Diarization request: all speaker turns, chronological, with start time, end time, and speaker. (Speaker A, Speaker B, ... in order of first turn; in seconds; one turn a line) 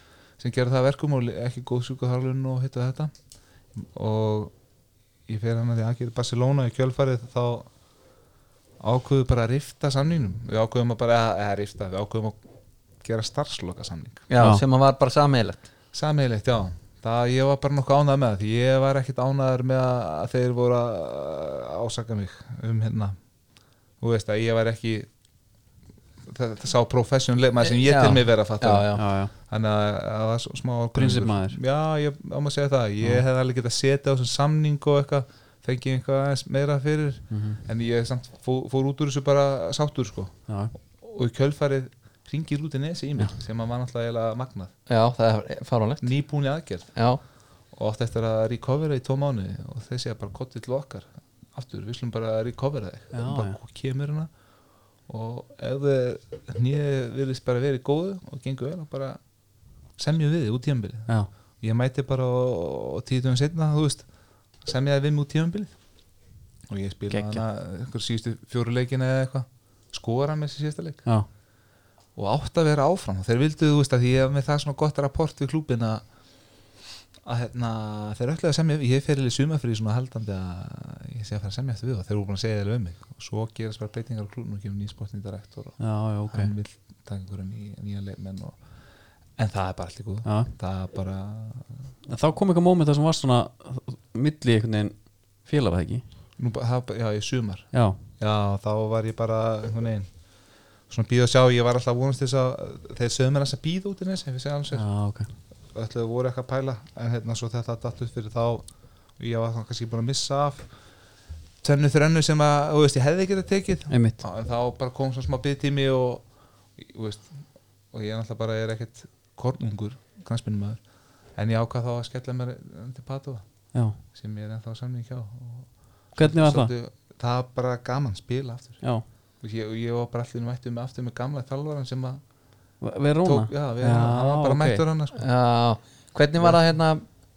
Speaker A: 0.4-3.1
Speaker A: 3.7-4.5
Speaker A: 5.3-7.7
Speaker A: 8.8-12.4
Speaker A: 13.0-14.3
Speaker B: 14.3-15.6
Speaker A: 15.9-23.2
Speaker A: 24.0-25.1
Speaker A: 26.2-44.7
Speaker B: 27.6-29.0
Speaker C: 28.9-29.3
Speaker C: 30.9-31.6
Speaker C: 37.3-37.6
Speaker C: 40.5-40.7
Speaker B: 44.9-46.1
Speaker A: 46.0-46.9
Speaker B: 46.9-47.2
Speaker A: 47.7-54.3
Speaker C: 53.1-53.6
Speaker A: 55.1-59.2
Speaker A: 60.0-64.1
Speaker A: 64.6-65.8
Speaker A: 66.7-71.0
Speaker C: 67.1-67.4
Speaker A: 72.2-76.0
Speaker A: 77.2-88.6
Speaker C: 85.8-86.5
Speaker A: 89.4-91.7
Speaker C: 90.2-90.5
Speaker C: 92.1-96.0
Speaker A: 96.4-100.1
Speaker C: 97.7-98.0
Speaker A: 100.9-104.8
Speaker C: 104.7-105.3
Speaker A: 105.7-108.6
Speaker A: 109.2-110.7
Speaker A: 111.6-116.2
Speaker C: 113.9-114.2
Speaker A: 116.8-117.4
Speaker A: 117.9-120.8
Speaker A: 121.3-123.5
Speaker C: 123.7-124.0
Speaker A: 124.1-128.8
Speaker C: 126.2-126.7
Speaker A: 129.4-132.2
Speaker C: 132.8-134.8
Speaker A: 133.2-135.2
Speaker B: 135.1-137.0